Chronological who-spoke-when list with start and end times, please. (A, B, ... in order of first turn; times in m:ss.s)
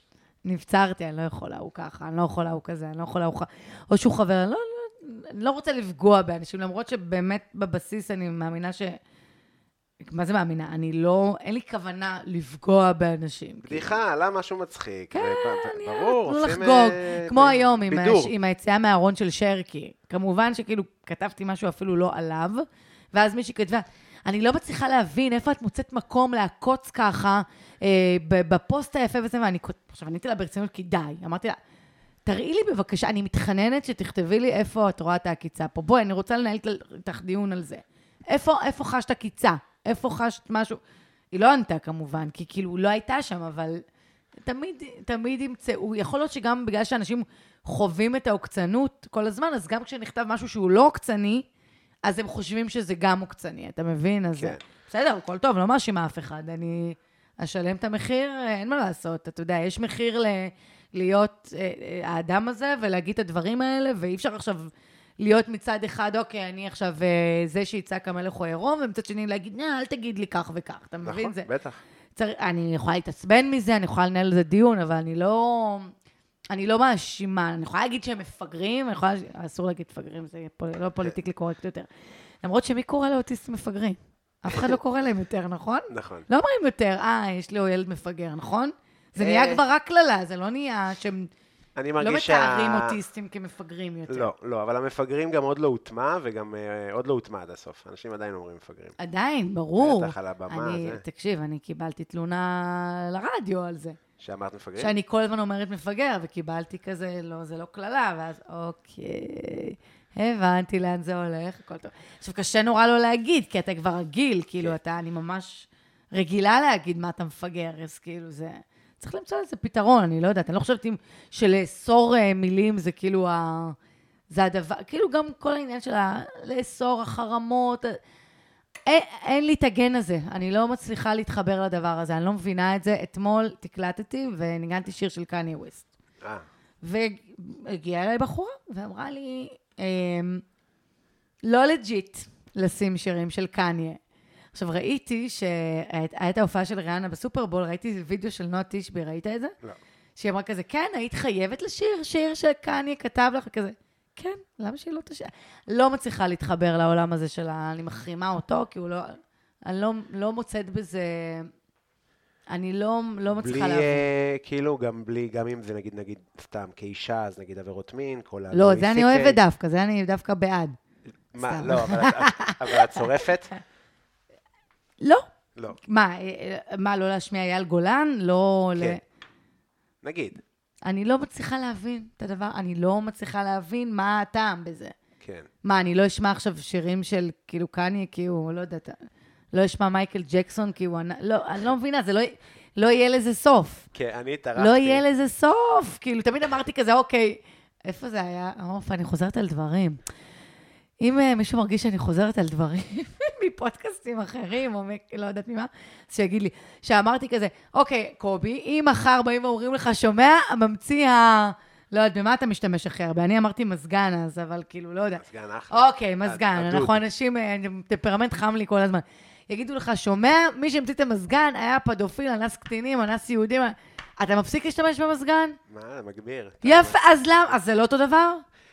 0:00.4-0:09.0 A
0:10.0-0:14.0 A
0:13.6-0:18.3 B
0:15.1-0:31.6 A
0:32.2-0:40.8 A
0:41.3-0:43.8 A
0:44.4-0:51.4 A
0:52.0-1:11.5 A
1:11.0-1:11.8 B
1:12.2-1:15.9 A
1:16.5-1:21.9 A
1:22.4-1:31.3 A
1:24.5-1:24.8 B
1:25.9-1:26.2 B
1:29.2-1:29.6 B
1:31.8-1:33.0 B
1:32.0-1:34.3 A
1:34.1-1:39.0 B
1:39.0-1:44.0 A
1:39.8-1:41.0 B
1:44.2-1:44.9 B
1:44.8-2:03.8 A
2:04.3-2:08.0 A
2:08.9-2:15.9 A
2:16.8-2:20.4 A
2:21.4-2:24.0 A
2:24.5-2:29.5 A
2:30.2-2:41.5 A
2:42.5-2:44.1 A
2:43.4-2:49.4 B
2:48.5-2:50.8 A
2:51.3-2:53.5 B
2:51.4-2:53.2 A
2:55.0-2:59.0 A
3:00.0-3:00.4 B
3:00.8-3:04.9 A
3:05.2-3:05.5 B
3:05.6-3:09.0 A
3:09.5-3:13.9 A
3:13.9-3:15.0 B
3:14.6-3:20.0 A
3:21.0-3:45.6 A
3:35.2-3:37.0 B
3:45.7-3:47.0 B
3:46.6-3:48.4 A